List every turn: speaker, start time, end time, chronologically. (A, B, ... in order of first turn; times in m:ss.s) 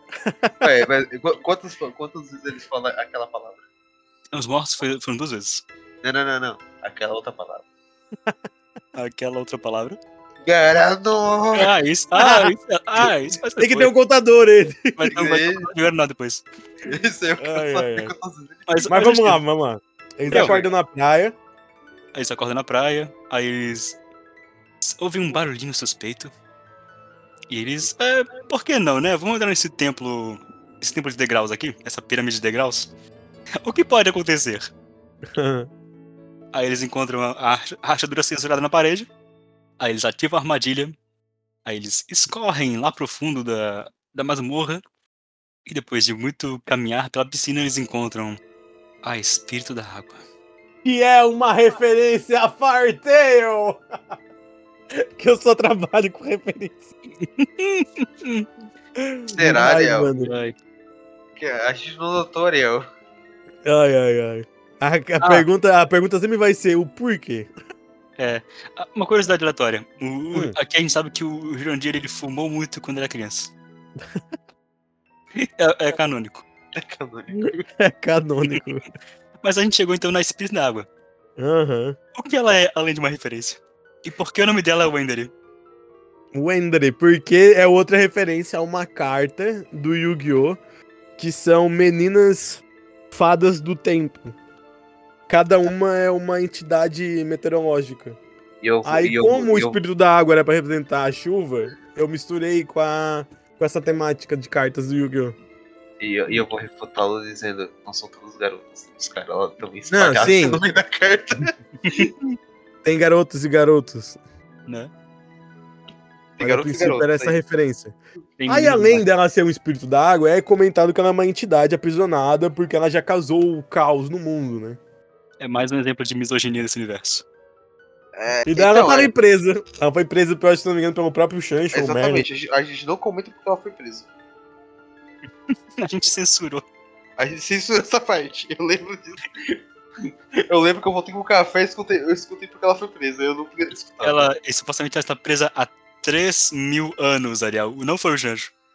0:00.2-0:00.6 A
0:00.6-0:03.6 B
0:04.3-0:05.6 C
0:06.0-0:07.6 B
0:08.9-0:10.0 C
0:10.4-0:11.7 B
0:11.5-0:13.9 C
0:12.2-0:12.5 A
0:13.6-0:15.1 A
0:15.0-0:16.4 C
0:15.1-0:15.7 B
0:16.8-0:18.8 B
0:17.4-0:18.1 A
0:18.7-0:19.4 C
0:18.9-0:21.3 A
0:20.3-0:20.7 B
0:20.3-0:20.5 C
0:22.1-0:24.0 C
0:24.8-0:26.3 C
0:27.5-0:32.9 C
0:33.6-0:34.7 C
0:35.3-0:35.7 A
0:36.5-0:39.1 C
0:39.8-0:40.9 C
0:41.6-0:44.8 C
0:45.6-0:48.4 C
0:49.0-0:50.2 C
0:50.8-0:54.1 A
0:54.9-0:56.9 A
0:57.2-0:58.5 C
0:59.0-1:00.3 A
0:59.3-1:00.1 B
1:00.2-1:00.6 C
1:01.4-1:02.8 B
1:03.6-1:07.5 A
1:05.2-1:05.4 C
1:08.2-1:13.5 C
1:15.4-1:16.4 C
1:16.7-1:17.6 B
1:17.4-1:18.8 A
1:19.4-1:20.9 C
1:21.4-1:22.0 A
1:22.2-1:25.3 C
1:26.3-1:30.6 A
1:31.2-1:34.3 A
1:35.3-1:38.2 A
1:38.6-1:39.8 B
1:38.8-1:45.3 A
1:46.0-1:52.1 B
1:49.9-1:50.6 A
1:52.8-1:54.2 A
1:56.4-1:57.4 B
1:56.4-1:57.9 A
1:58.4-1:59.0 C
1:58.5-2:04.8 A
2:05.4-2:07.2 C
2:08.2-2:09.1 B
2:08.4-2:12.2 A
2:11.7-2:14.1 B
2:15.8-2:16.6 C
2:17.2-2:19.6 B
2:20.4-2:24.3 B
2:24.0-2:28.5 C